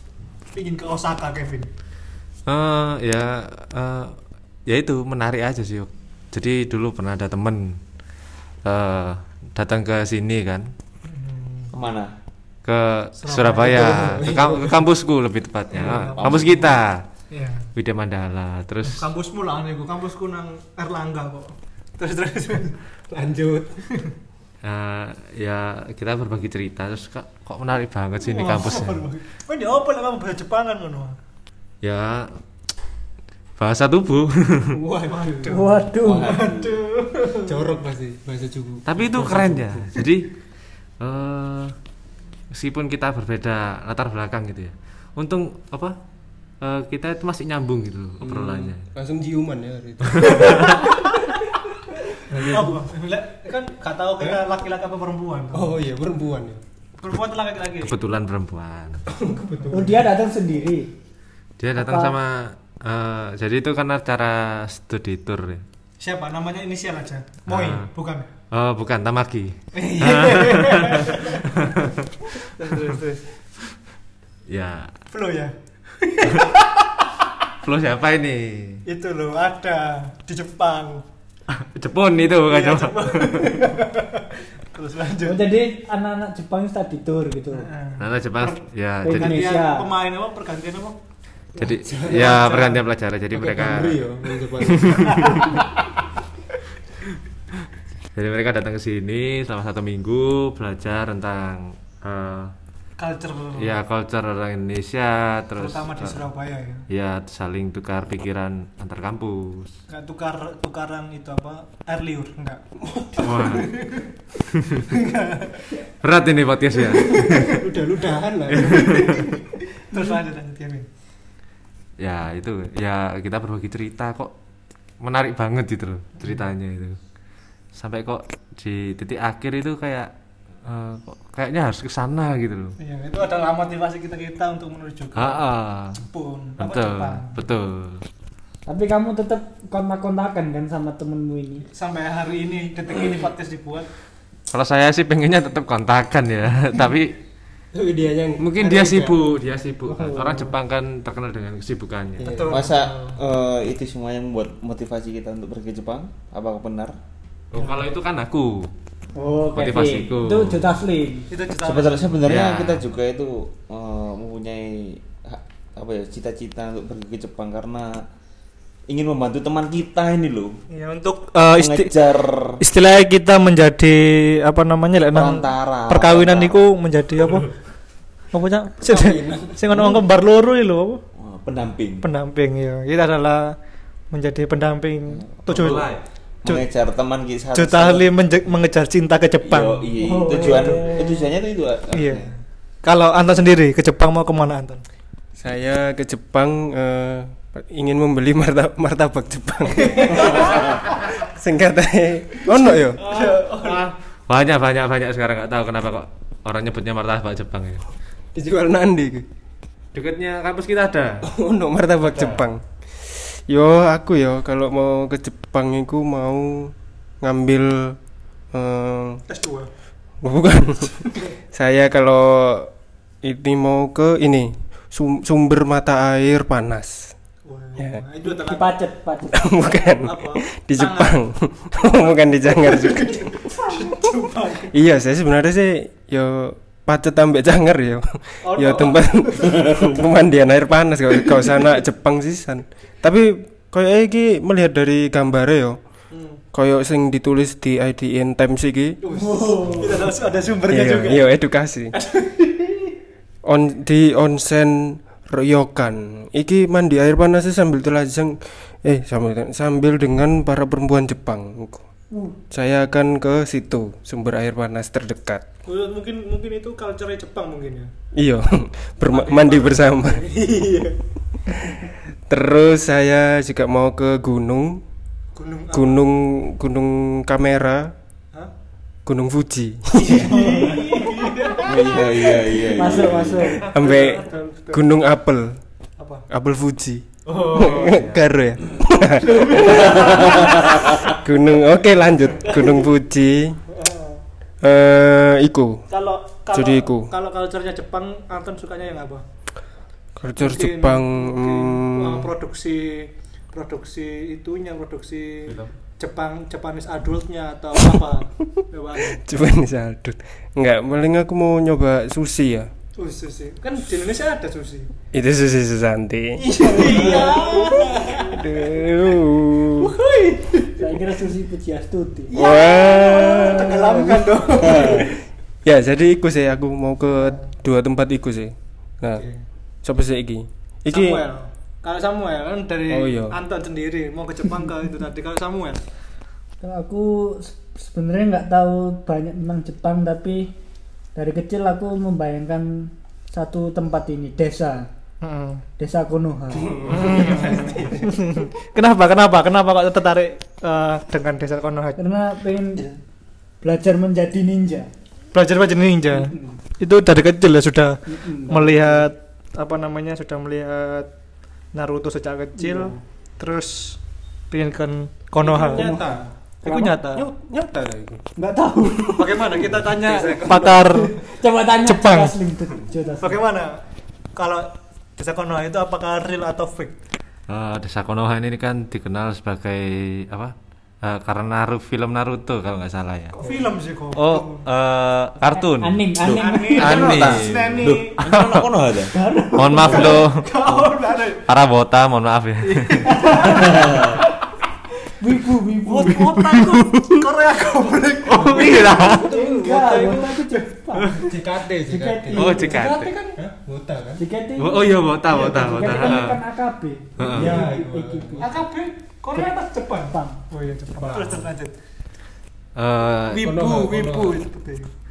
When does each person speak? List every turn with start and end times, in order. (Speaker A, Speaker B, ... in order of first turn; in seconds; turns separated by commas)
Speaker A: 0.5-1.7, Speaker B: 2.5-4.1, Speaker B: 4.7-7.6, Speaker B: 8.6-10.6, Speaker A: 11.1-11.7, Speaker C: 11.7-12.1, Speaker B: 12.6-17.0, Speaker A: 13.2-13.9, Speaker D: 13.7-14.8, Speaker A: 15.7-16.8, Speaker C: 16.2-16.5, Speaker A: 17.3-17.6, Speaker B: 17.8-19.1, Speaker A: 18.8-22.8, Speaker D: 23.1-23.7, Speaker B: 24.6-29.0, Speaker A: 28.2-31.2, Speaker B: 31.8-32.2, Speaker B: 33.6-34.7, Speaker D: 34.7-35.3, Speaker A: 35.0-37.7, Speaker E: 35.5-36.3, Speaker C: 36.0-36.8, Speaker D: 37.5-39.8, Speaker B: 38.8-40.3, Speaker B: 41.0-41.7, Speaker B: 42.5-45.9, Speaker B: 46.6-48.8, Speaker D: 48.2-51.4, Speaker B: 50.2-50.8, Speaker D: 52.0-52.7, Speaker A: 52.5-55.7, Speaker D: 55.5-56.6, Speaker A: 57.0-57.9, Speaker B: 57.8-59.0, Speaker D: 59.1-60.0, Speaker E: 59.7-60.9, Speaker B: 61.6-65.6, Speaker E: 61.8-62.1, Speaker A: 66.0-68.2, Speaker B: 67.5-67.9, Speaker B: 68.5-72.2, Speaker A: 69.7-71.8, Speaker A: 72.3-73.2, Speaker B: 74.5-74.9, Speaker A: 75.1-76.5, Speaker B: 76.2-76.5, Speaker B: 77.6-78.8, Speaker A: 78.9-81.0, Speaker B: 81.6-83.5, Speaker A: 82.5-85.4, Speaker E: 85.2-87.7, Speaker A: 87.5-88.6, Speaker B: 88.0-89.4, Speaker E: 89.0-89.9, Speaker A: 89.1-91.0, Speaker B: 91.5-95.6, Speaker D: 91.8-92.2, Speaker A: 92.2-92.8, Speaker D: 93.3-95.6, Speaker A: 94.9-95.5, Speaker B: 98.1-102.5, Speaker A: 103.0-103.8, Speaker B: 103.6-106.2, Speaker A: 105.6-106.8, Speaker B: 106.9-109.7, Speaker A: 109.9-112.6, Speaker D: 112.8-113.7, Speaker B: 113.2-113.7, Speaker A: 113.4-114.0, Speaker A: 114.9-115.7, Speaker B: 116.0-117.8, Speaker D: 117.0-119.1, Speaker B: 118.5-119.2, Speaker A: 118.7-120.9, Speaker B: 122.0-124.3, Speaker B: 125.0-127.0, Speaker B: 127.8-130.1, Speaker B: 130.6-132.7, Speaker A: 132.8-135.4, Speaker B: 135.2-136.0, Speaker A: 136.0-137.4, Speaker B: 136.6-138.0, Speaker E: 138.7-141.6, Speaker A: 141.7-143.8, Speaker B: 144.5-147.1, Speaker D: 147.7-149.1, Speaker B: 148.4-152.3, Speaker D: 149.9-150.2, Speaker E: 150.0-150.5, Speaker D: 152.2-152.7, Speaker A: 152.2-153.1, Speaker C: 152.5-156.9, Speaker B: 157.5-158.7, Speaker A: 157.6-157.8, Speaker E: 159.1-161.3, Speaker B: 159.5-160.7, Speaker A: 161.3-162.2, Speaker C: 161.6-168.0, Speaker B: 162.2-162.8, Speaker C: 168.9-170.5, Speaker A: 170.7-171.9, Speaker C: 171.6-172.6, Speaker A: 172.6-177.5, Speaker C: 175.1-176.7, Speaker A: 178.3-181.0, Speaker D: 178.9-179.6, Speaker C: 181.2-182.0, Speaker A: 182.0-183.6, Speaker A: 184.1-185.9, Speaker C: 185.1-185.7, Speaker B: 185.5-186.0, Speaker C: 186.4-188.1, Speaker A: 187.5-189.9, Speaker C: 189.4-192.3, Speaker E: 190.0-191.3, Speaker A: 190.4-190.7, Speaker A: 191.9-194.8, Speaker D: 195.4-203.0, Speaker A: 199.8-200.6, Speaker A: 203.0-203.8, Speaker B: 203.1-207.8, Speaker D: 208.3-209.2, Speaker B: 209.9-211.2, Speaker D: 211.2-218.0, Speaker B: 212.0-212.5, Speaker D: 218.5-219.2, Speaker A: 219.3-219.7, Speaker D: 220.2-222.7, Speaker D: 223.2-227.1, Speaker A: 227.4-228.7, Speaker E: 228.2-229.4, Speaker D: 229.3-233.4, Speaker A: 229.8-231.2, Speaker A: 232.7-234.7, Speaker D: 234.7-245.8, Speaker A: 238.4-239.4, Speaker A: 246.1-246.4, Speaker D: 246.5-249.0, Speaker A: 249.0-251.3, Speaker E: 249.1-249.9, Speaker D: 250.7-251.9, Speaker A: 251.9-252.9, Speaker D: 253.4-261.8, Speaker D: 262.5-265.4, Speaker A: 265.6-267.9, Speaker D: 268.1-270.9, Speaker A: 269.1-269.9, Speaker D: 271.5-274.8, Speaker A: 275.3-276.0, Speaker D: 275.7-277.9, Speaker D: 279.1-280.2, Speaker A: 280.1-282.3, Speaker E: 280.6-280.9, Speaker C: 281.6-283.5, Speaker E: 282.8-283.6, Speaker D: 283.6-285.5, Speaker A: 283.7-284.9, Speaker A: 286.0-286.2, Speaker D: 286.3-290.4, Speaker B: 287.2-288.2, Speaker A: 289.4-289.7, Speaker C: 289.6-291.1, Speaker D: 291.0-293.6, Speaker A: 292.5-292.8, Speaker A: 293.7-294.2, Speaker D: 294.6-295.8, Speaker A: 295.9-299.2, Speaker D: 296.5-297.1, Speaker D: 300.2-302.3, Speaker A: 300.4-309.2, Speaker B: 305.5-305.7, Speaker D: 309.1-312.7, Speaker A: 313.0-314.9, Speaker D: 315.1-317.1, Speaker A: 316.4-318.6, Speaker E: 316.8-317.2, Speaker D: 318.2-319.9, Speaker A: 319.8-320.7, Speaker E: 320.8-322.3, Speaker D: 322.3-325.1, Speaker A: 322.3-325.1, Speaker D: 325.6-329.2, Speaker A: 329.1-329.3, Speaker D: 329.8-331.2, Speaker A: 330.9-335.8, Speaker D: 332.9-333.4, Speaker E: 336.6-340.5, Speaker E: 341.1-344.9, Speaker A: 345.2-345.6, Speaker E: 345.8-347.9, Speaker A: 346.9-352.0, Speaker E: 352.0-352.9, Speaker E: 353.6-354.9, Speaker A: 355.3-356.3, Speaker E: 356.1-356.6, Speaker A: 356.8-361.1, Speaker E: 358.1-359.1, Speaker A: 361.7-364.0, Speaker E: 362.6-363.0, Speaker A: 364.5-366.0, Speaker D: 365.4-368.2, Speaker E: 365.6-366.8, Speaker A: 366.6-367.2, Speaker E: 368.4-369.4, Speaker A: 369.2-371.1, Speaker D: 370.2-370.6, Speaker E: 370.6-373.4, Speaker A: 371.8-372.3, Speaker A: 373.2-373.8, Speaker A: 374.4-376.9, Speaker B: 377.5-383.4, Speaker A: 383.4-384.6, Speaker B: 384.1-388.6, Speaker E: 385.5-387.0, Speaker C: 386.2-389.1, Speaker A: 386.4-388.2, Speaker E: 389.1-390.2, Speaker B: 389.5-390.3, Speaker C: 389.8-390.2, Speaker A: 389.9-391.4, Speaker B: 391.5-393.1, Speaker A: 392.6-393.7, Speaker E: 393.1-394.0, Speaker C: 393.5-394.1, Speaker E: 395.2-396.3, Speaker A: 395.9-401.2, Speaker B: 398.2-399.2, Speaker E: 399.0-401.1, Speaker D: 401.2-404.2, Speaker E: 401.9-402.9, Speaker B: 402.3-403.1, Speaker E: 404.1-408.5, Speaker B: 404.6-406.4, Speaker A: 405.3-406.3, Speaker B: 407.2-407.6, Speaker D: 407.3-408.5, Speaker A: 408.4-411.8, Speaker E: 409.3-410.4, Speaker D: 411.0-411.4, Speaker B: 412.8-413.5, Speaker A: 413.4-414.9, Speaker D: 413.4-414.3